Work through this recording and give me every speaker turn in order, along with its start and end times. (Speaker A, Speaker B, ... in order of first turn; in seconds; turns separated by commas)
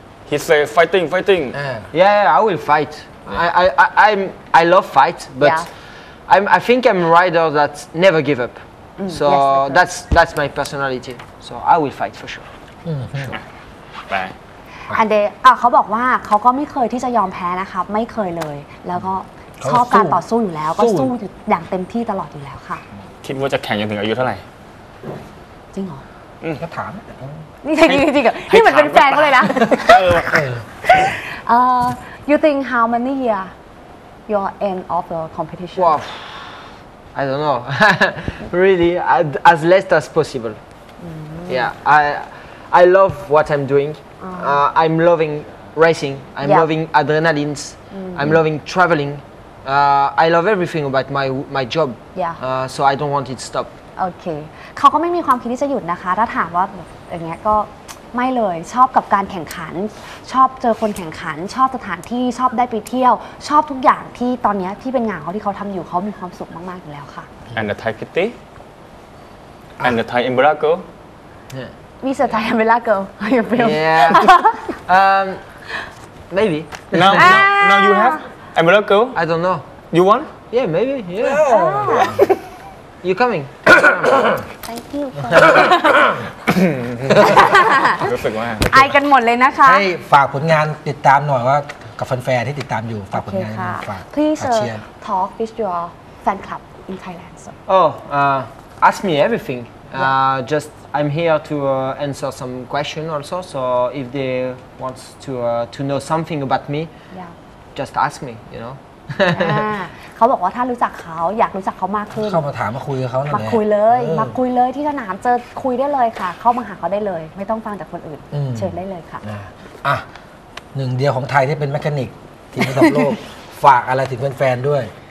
Speaker A: 0.3-1.6, Speaker B: 1.5-1.9, Speaker C: 1.9-5.7, Speaker D: 5.4-5.7, Speaker C: 6.3-12.5, Speaker D: 9.0-9.8, Speaker B: 12.8-13.4, Speaker A: 14.1-14.3, Speaker D: 14.9-22.8, Speaker B: 19.6-20.2, Speaker B: 20.8-21.1, Speaker A: 23.2-24.4, Speaker D: 25.7-26.0, Speaker B: 26.6-27.4, Speaker D: 27.6-33.5, Speaker A: 27.8-30.3, Speaker B: 30.3-30.6, Speaker D: 34.3-36.0, Speaker C: 35.8-40.6, Speaker D: 41.0-41.7, Speaker C: 41.5-53.7, Speaker D: 44.2-44.6, Speaker D: 46.4-46.7, Speaker D: 47.9-48.4, Speaker D: 52.1-52.4, Speaker D: 54.0-67.3, Speaker A: 67.5-68.4, Speaker A: 69.8-70.8, Speaker D: 72.0-74.7, Speaker C: 73.6-75.4, Speaker C: 76.3-77.4, Speaker A: 76.9-79.2, Speaker D: 77.1-78.2, Speaker C: 79.2-79.7, Speaker A: 79.9-80.3, Speaker C: 80.5-81.5, Speaker B: 81.2-82.2, Speaker D: 81.5-82.3, Speaker C: 83.0-84.4, Speaker D: 84.6-86.2, Speaker A: 86.5-88.7, Speaker D: 87.2-88.0, Speaker D: 88.7-89.9, Speaker B: 89.6-94.8, Speaker D: 93.1-97.6, Speaker C: 97.7-106.9, Speaker C: 107.8-109.7, Speaker D: 109.3-112.4, Speaker B: 112.2-114.3, Speaker D: 113.3-119.2, Speaker B: 118.3-120.0, Speaker B: 120.7-124.9